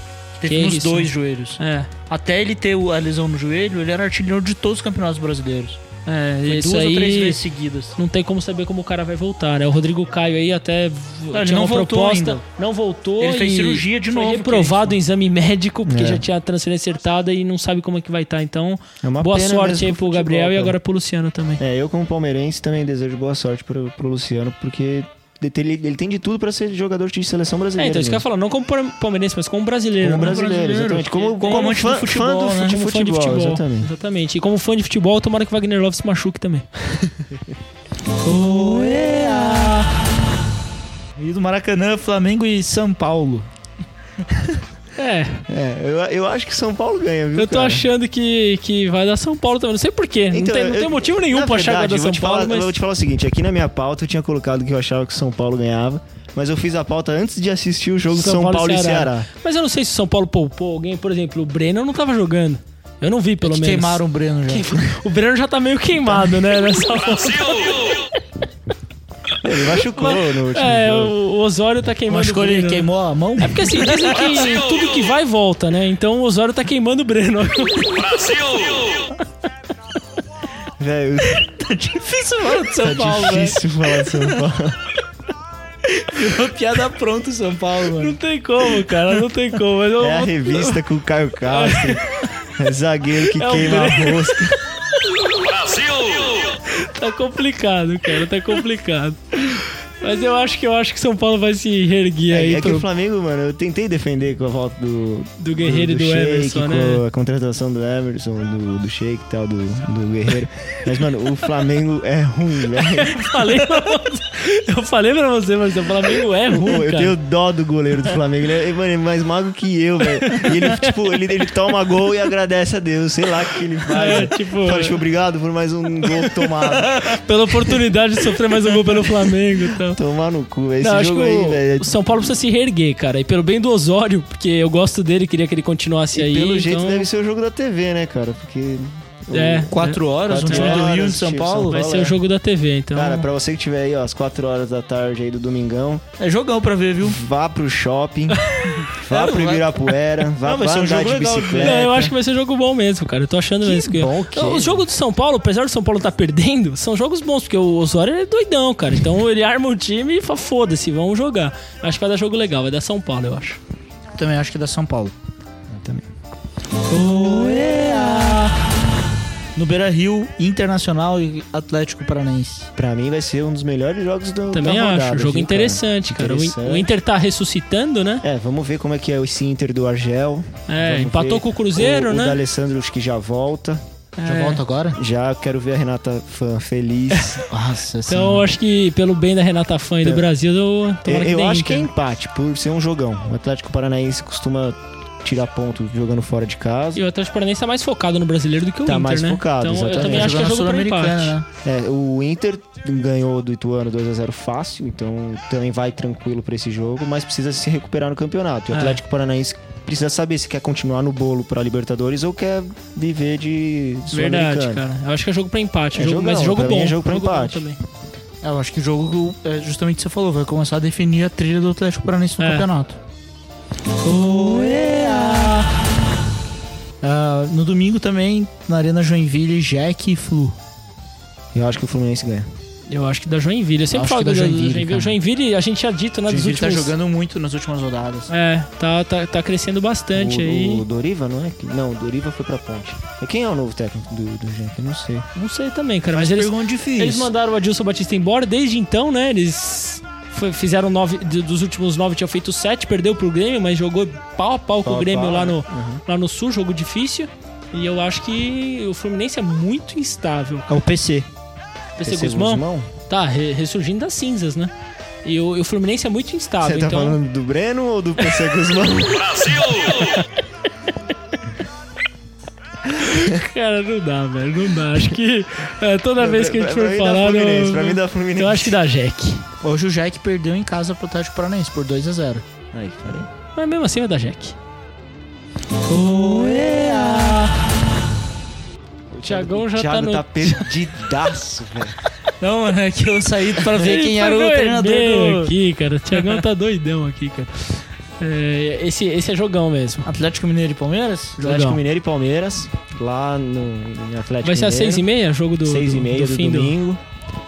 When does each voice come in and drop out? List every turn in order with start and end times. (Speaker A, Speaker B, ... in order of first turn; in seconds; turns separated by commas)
Speaker A: 0.4-5.8, Speaker B: 0.5-1.9, Speaker B: 6.0-7.4, Speaker A: 6.5-8.0, Speaker B: 8.0-21.6, Speaker A: 11.3-12.4, Speaker A: 13.2-14.9, Speaker C: 15.8-16.2, Speaker C: 19.0-20.8, Speaker C: 21.6-28.2, Speaker B: 27.8-31.9, Speaker C: 30.0-33.9, Speaker A: 30.1-32.8, Speaker B: 32.5-36.6, Speaker C: 37.0-37.4, Speaker A: 38.2-39.9, Speaker A: 41.2-43.5, Speaker B: 45.0-45.4, Speaker C: 45.5-47.9, Speaker B: 47.4-52.7, Speaker C: 50.3-59.3, Speaker B: 58.1-68.0, Speaker A: 63.4-64.9, Speaker C: 66.0-66.4, Speaker C: 69.4-71.1, Speaker B: 69.8-78.8, Speaker A: 72.1-74.5, Speaker C: 80.8-81.5, Speaker A: 81.5-83.6, Speaker C: 82.8-84.8, Speaker A: 85.8-88.1, Speaker B: 88.0-90.8, Speaker C: 90.0-92.0, Speaker B: 91.5-92.2, Speaker C: 92.6-94.5, Speaker B: 93.2-95.6, Speaker B: 96.6-102.8, Speaker C: 102.3-113.6, Speaker B: 105.4-107.0, Speaker B: 112.8-117.2, Speaker C: 116.5-126.9, Speaker B: 120.2-121.0, Speaker B: 123.9-125.0, Speaker B: 126.9-130.0, Speaker C: 129.8-132.2, Speaker B: 130.8-137.1, Speaker C: 136.1-142.2, Speaker B: 139.3-140.9, Speaker A: 139.7-141.8, Speaker B: 141.7-143.3, Speaker C: 142.9-146.0, Speaker A: 146.2-147.2, Speaker C: 147.0-152.1, Speaker B: 148.4-148.9, Speaker A: 149.1-149.8, Speaker A: 150.4-152.1, Speaker B: 151.6-163.6, Speaker C: 153.6-154.8, Speaker A: 164.2-165.1, Speaker C: 165.7-166.0, Speaker A: 166.9-168.6, Speaker A: 169.6-172.7, Speaker C: 172.8-176.9, Speaker B: 174.5-178.2, Speaker C: 178.2-183.8, Speaker B: 180.7-182.4, Speaker B: 184.2-184.6, Speaker A: 184.2-185.0, Speaker C: 184.9-187.4, Speaker B: 187.1-187.4, Speaker A: 187.5-188.5, Speaker B: 188.1-191.9, Speaker C: 191.0-197.0, Speaker B: 196.9-201.4, Speaker C: 198.8-200.4, Speaker A: 200.0-201.4, Speaker C: 201.6-214.8, Speaker B: 208.7-209.0, Speaker B: 214.1-217.8, Speaker C: 215.9-217.7, Speaker A: 218.4-223.0, Speaker B: 222.4-222.7, Speaker A: 224.0-225.7, Speaker A: 227.0-230.6, Speaker C: 231.5-232.5, Speaker B: 232.9-236.9, Speaker A: 233.9-235.2, Speaker A: 236.2-238.3, Speaker B: 238.3-240.8, Speaker C: 240.1-245.3, Speaker B: 245.3-260.7, Speaker A: 246.1-247.3, Speaker C: 254.8-256.0, Speaker A: 260.7-261.3, Speaker B: 262.0-264.7, Speaker C: 262.0-262.9, Speaker B: 265.2-267.2, Speaker C: 266.6-269.7, Speaker B: 269.4-270.3, Speaker B: 272.9-279.4, Speaker C: 276.2-278.8, Speaker A: 279.6-282.4, Speaker C: 282.7-283.3, Speaker B: 283.6-284.6, Speaker A: 285.9-287.6, Speaker C: 289.1-292.0, Speaker B: 289.2-290.8, Speaker A: 292.4-295.5, Speaker B: 293.7-300.1, Speaker A: 300.0-301.4, Speaker C: 301.4-305.1, Speaker B: 301.4-301.8, Speaker B: 304.4-306.7, Speaker C: 305.6-307.0